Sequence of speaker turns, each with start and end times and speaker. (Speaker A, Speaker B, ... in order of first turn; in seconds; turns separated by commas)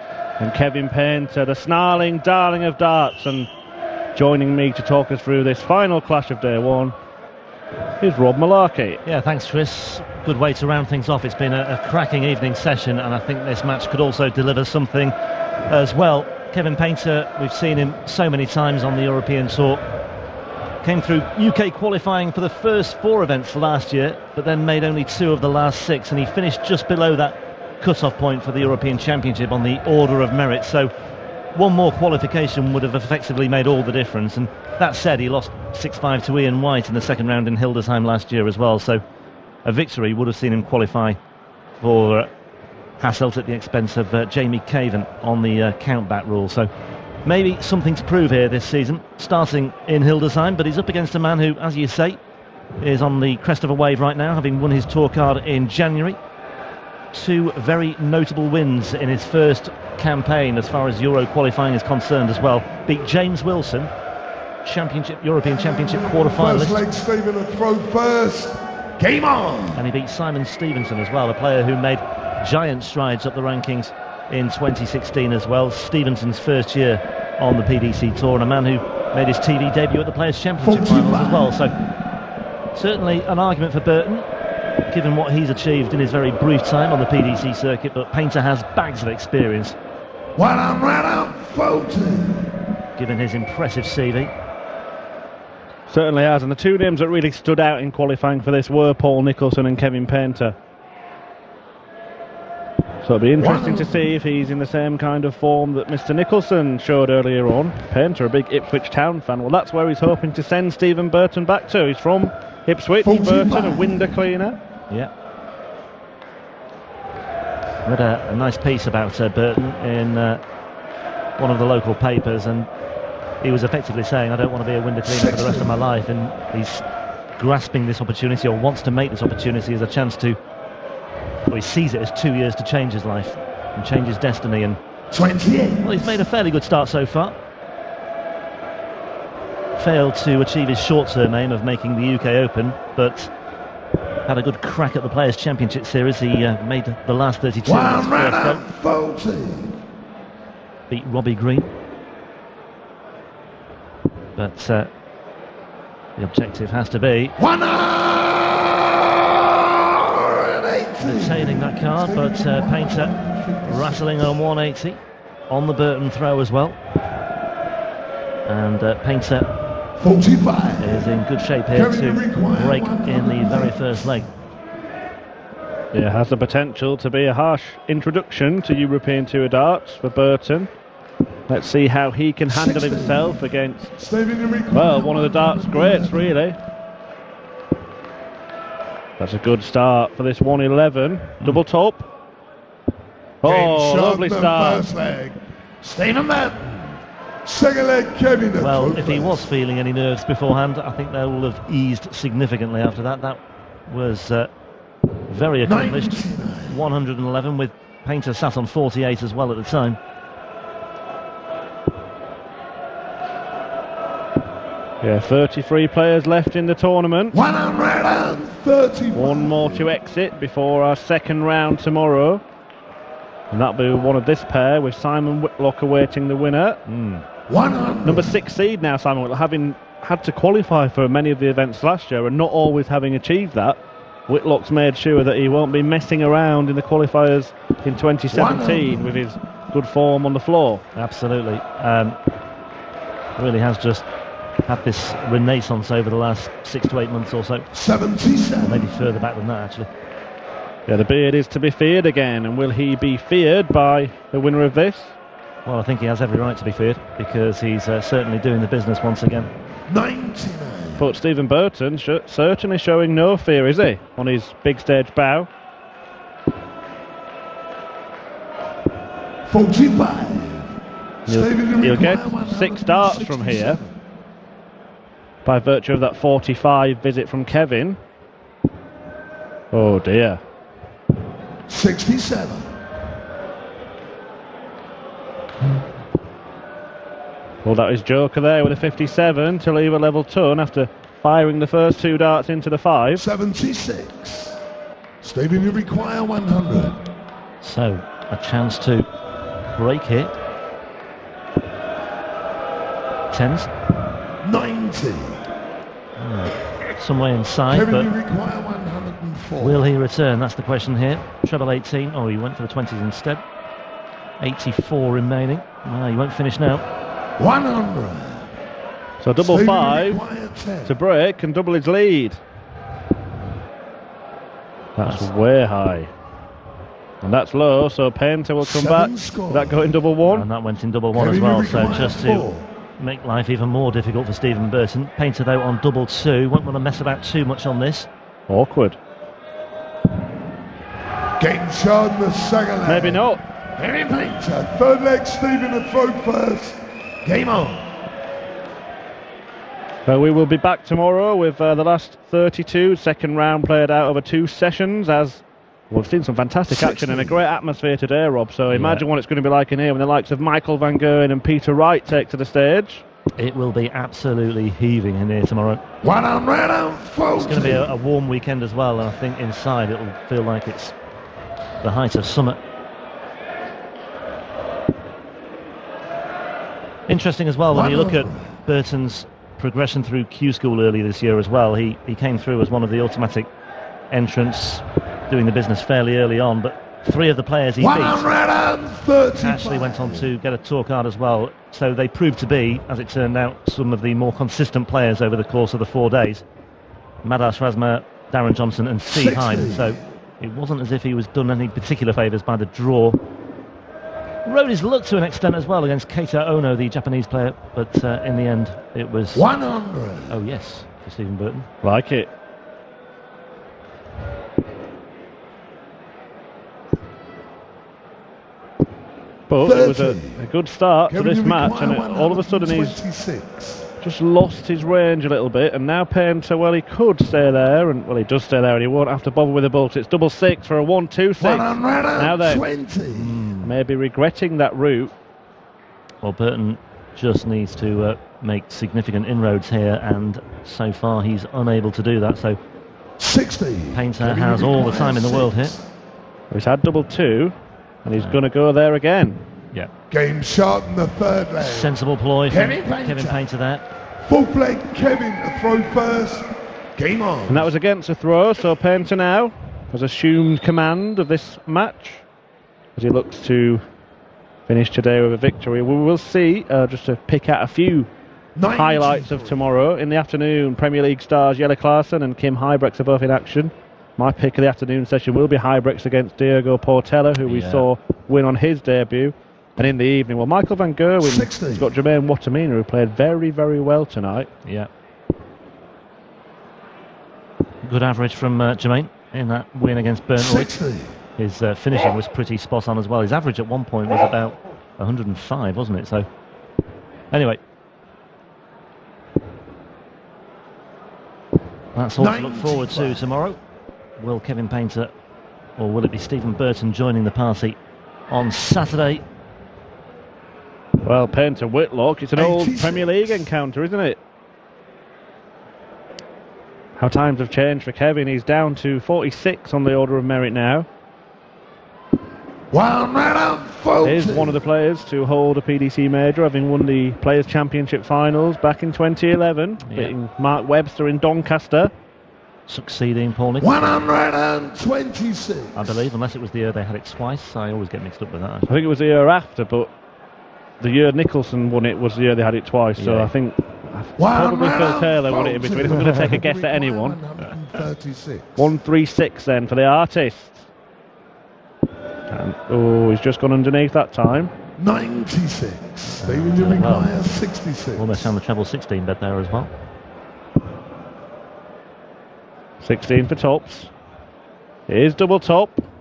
Speaker A: 0.4-3.5, Speaker A: 4.2-7.0, Speaker A: 8.0-9.0, Speaker B: 9.1-15.2, Speaker B: 15.7-19.8, Speaker B: 20.8-30.9, Speaker B: 31.5-39.0, Speaker B: 39.6-41.2, Speaker B: 41.8-42.3, Speaker B: 43.0-46.7, Speaker B: 47.2-52.2, Speaker B: 52.8-56.2, Speaker B: 57.1-63.9, Speaker B: 64.6-66.8, Speaker C: 65.4-69.9, Speaker B: 69.8-81.7, Speaker C: 80.6-81.5, Speaker B: 82.7-84.3, Speaker B: 84.9-89.8, Speaker C: 90.4-92.6, Speaker B: 93.0-94.3, Speaker A: 95.9-100.6, Speaker A: 103.0-114.6, Speaker C: 103.4-104.0, Speaker C: 113.0-114.2, Speaker B: 117.8-120.4, Speaker B: 121.4-122.7, Speaker B: 123.4-126.8, Speaker C: 125.0-125.8, Speaker B: 127.4-130.4, Speaker B: 131.5-134.8, Speaker C: 135.1-136.1, Speaker B: 135.8-137.4, Speaker B: 139.8-143.3, Speaker B: 144.3-148.6, Speaker C: 147.7-149.8, Speaker B: 150.9-151.7, Speaker B: 154.4-154.9, Speaker B: 156.2-157.4, Speaker C: 157.4-164.4, Speaker B: 161.0-163.1, Speaker B: 163.7-166.8, Speaker B: 168.5-169.5, Speaker C: 170.0-171.1, Speaker B: 170.8-174.3, Speaker C: 171.7-174.1, Speaker A: 175.9-180.7, Speaker A: 181.5-184.0, Speaker C: 182.5-183.4, Speaker C: 184.0-186.3, Speaker A: 184.7-186.6, Speaker A: 189.2-192.1, Speaker A: 193.4-194.9, Speaker C: 193.4-199.5, Speaker B: 198.6-204.5, Speaker B: 205.3-210.0, Speaker C: 205.6-206.8, Speaker A: 215.0-217.4, Speaker C: 217.3-219.9, Speaker A: 219.1-222.4, Speaker A: 223.5-226.8, Speaker B: 226.9-227.2, Speaker C: 227.5-228.4, Speaker A: 228.0-240.8, Speaker C: 238.3-239.2, Speaker B: 240.9-242.2, Speaker B: 243.4-244.1, Speaker B: 244.7-247.7, Speaker C: 247.7-248.9, Speaker B: 248.6-249.9, Speaker A: 250.9-255.2, Speaker B: 255.7-259.5, Speaker C: 259.9-261.1, Speaker A: 261.0-265.5, Speaker C: 269.5-273.9, Speaker A: 271.3-273.8, Speaker A: 275.4-278.0, Speaker A: 279.7-280.4, Speaker C: 281.7-282.7, Speaker A: 287.6-293.2, Speaker C: 293.2-294.6, Speaker C: 295.2-297.1, Speaker B: 297.6-299.1, Speaker B: 299.7-300.3, Speaker B: 303.3-303.7, Speaker C: 304.4-305.4, Speaker B: 306.2-308.1, Speaker C: 307.7-309.8, Speaker B: 309.6-313.4, Speaker B: 314.4-316.9, Speaker C: 317.4-318.5, Speaker A: 319.2-320.2, Speaker C: 319.4-320.9, Speaker A: 320.9-322.4, Speaker A: 325.0-326.1, Speaker B: 325.0-325.3, Speaker A: 327.2-330.5, Speaker C: 328.6-329.9, Speaker B: 330.3-338.1, Speaker C: 331.1-332.7, Speaker A: 338.5-339.0, Speaker C: 341.4-343.2, Speaker A: 342.9-343.4, Speaker C: 343.8-348.0, Speaker A: 350.1-363.1, Speaker C: 356.7-357.4, Speaker B: 358.7-359.1, Speaker B: 363.4-365.8, Speaker C: 366.0-367.9, Speaker B: 367.4-370.9, Speaker B: 371.8-372.6, Speaker B: 377.1-383.5, Speaker C: 377.7-378.6, Speaker B: 384.1-388.3, Speaker C: 387.8-390.3, Speaker B: 389.4-396.4, Speaker B: 397.2-403.2, Speaker C: 399.1-400.0, Speaker B: 404.4-409.5, Speaker C: 409.3-410.4, Speaker B: 410.3-411.7, Speaker A: 411.8-412.3, Speaker A: 419.5-423.0, Speaker C: 419.6-420.4, Speaker C: 421.1-423.9, Speaker A: 424.0-432.6, Speaker C: 431.4-433.5, Speaker B: 433.1-433.7, Speaker A: 433.6-435.1, Speaker B: 436.2-442.6, Speaker C: 443.2-445.9, Speaker B: 443.9-445.8, Speaker A: 446.5-449.4, Speaker C: 450.1-453.4, Speaker B: 451.6-453.9, Speaker C: 454.2-457.7, Speaker A: 457.5-462.2, Speaker A: 463.0-463.8, Speaker A: 464.7-468.1, Speaker C: 468.6-469.7, Speaker A: 468.6-484.5, Speaker B: 477.4-477.9, Speaker C: 481.2-481.9, Speaker B: 487.8-490.7, Speaker C: 490.4-491.2, Speaker B: 491.4-496.3, Speaker B: 497.3-497.6, Speaker B: 501.9-503.6, Speaker C: 502.2-503.2, Speaker B: 504.2-505.1, Speaker B: 505.8-507.8, Speaker B: 508.3-509.2, Speaker A: 511.1-514.2, Speaker C: 512.4-513.5, Speaker A: 517.0-520.9, Speaker C: 522.7-524.6, Speaker A: 524.0-531.9, Speaker B: 529.9-530.1, Speaker B: 532.7-534.0, Speaker C: 533.6-536.1, Speaker B: 535.8-538.7, Speaker A: 538.7-539.9, Speaker A: 540.8-547.2, Speaker B: 543.0-543.3, Speaker C: 544.2-548.7, Speaker A: 548.6-550.7, Speaker A: 552.3-554.5, Speaker C: 554.8-558.3, Speaker B: 556.1-557.2, Speaker B: 558.0-559.7, Speaker A: 562.8-563.9, Speaker A: 564.9-565.8